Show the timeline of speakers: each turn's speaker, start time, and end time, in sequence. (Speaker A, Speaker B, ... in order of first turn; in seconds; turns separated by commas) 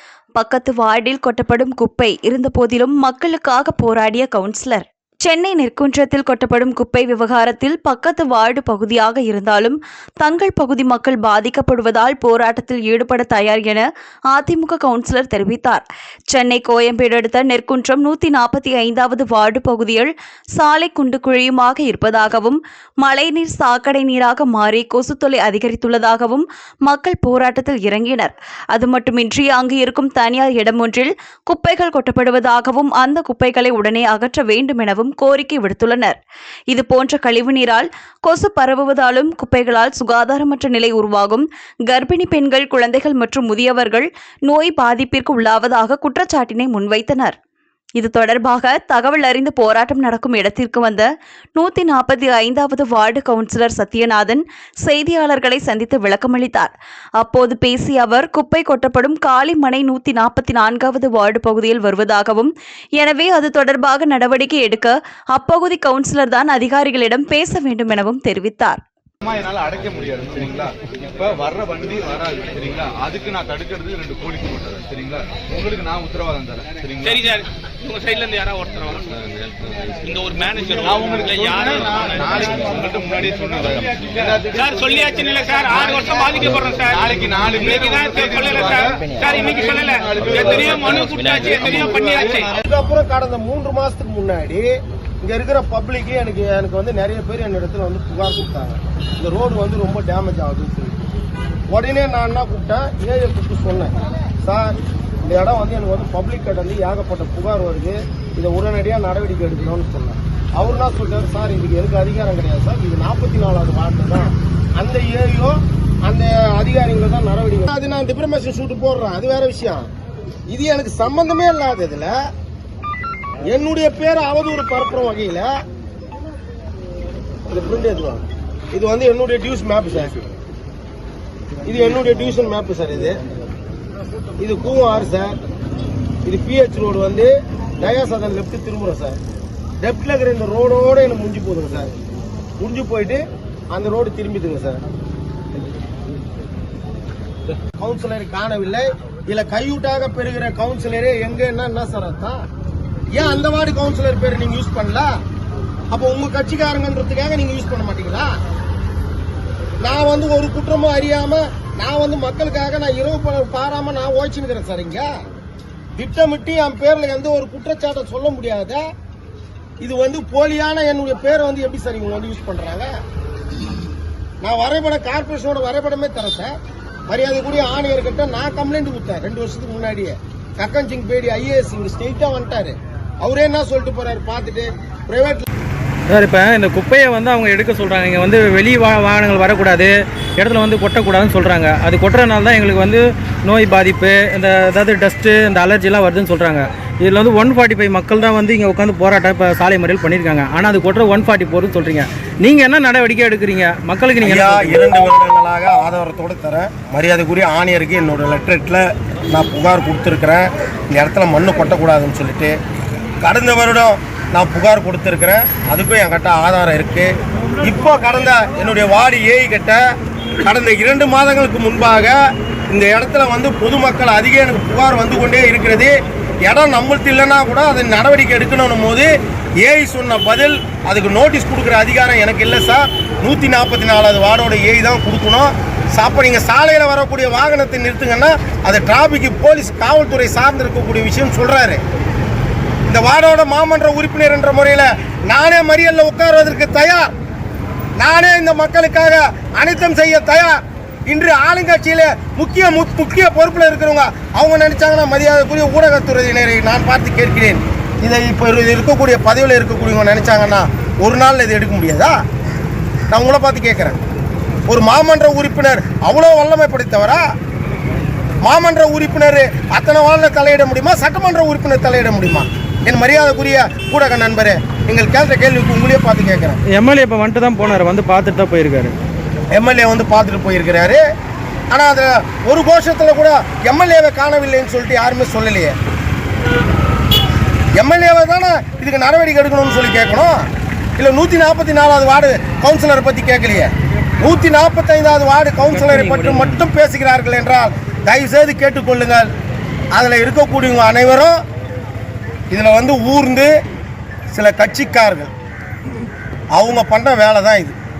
Speaker A: 0.4-36.2, Speaker A: 36.7-47.3, Speaker A: 48.0-68.8, Speaker B: 69.2-77.3, Speaker C: 77.0-79.3, Speaker C: 80.0-82.5, Speaker B: 80.8-92.5, Speaker C: 84.5-92.5, Speaker D: 92.5-94.7, Speaker D: 95.2-101.0, Speaker D: 101.7-119.8, Speaker D: 120.5-122.1, Speaker D: 123.4-125.5, Speaker D: 127.5-130.1, Speaker D: 131.6-133.2, Speaker D: 134.4-135.3, Speaker D: 136.2-139.2, Speaker D: 139.8-141.9, Speaker D: 142.6-144.8, Speaker D: 147.8-152.4, Speaker D: 153.1-155.1, Speaker D: 155.9-158.3, Speaker D: 159.8-165.1, Speaker D: 165.9-168.8, Speaker D: 169.8-172.9, Speaker D: 174.4-176.5, Speaker D: 177.1-185.4, Speaker E: 186.1-204.8, Speaker D: 204.2-212.6, Speaker D: 213.2-219.8, Speaker D: 220.4-222.1, Speaker D: 222.7-229.1, Speaker D: 229.6-241.8, Speaker D: 242.9-247.1, Speaker D: 248.0-262.1, Speaker D: 263.1-264.0, Speaker D: 264.7-267.2, Speaker D: 268.4-276.6, Speaker E: 276.7-278.9, Speaker D: 279.5-281.0, Speaker D: 281.7-285.7, Speaker D: 287.7-290.4, Speaker D: 291.0-299.3, Speaker E: 295.6-296.6, Speaker D: 299.9-301.4, Speaker D: 302.5-303.5, Speaker D: 304.3-305.3, Speaker D: 306.5-307.7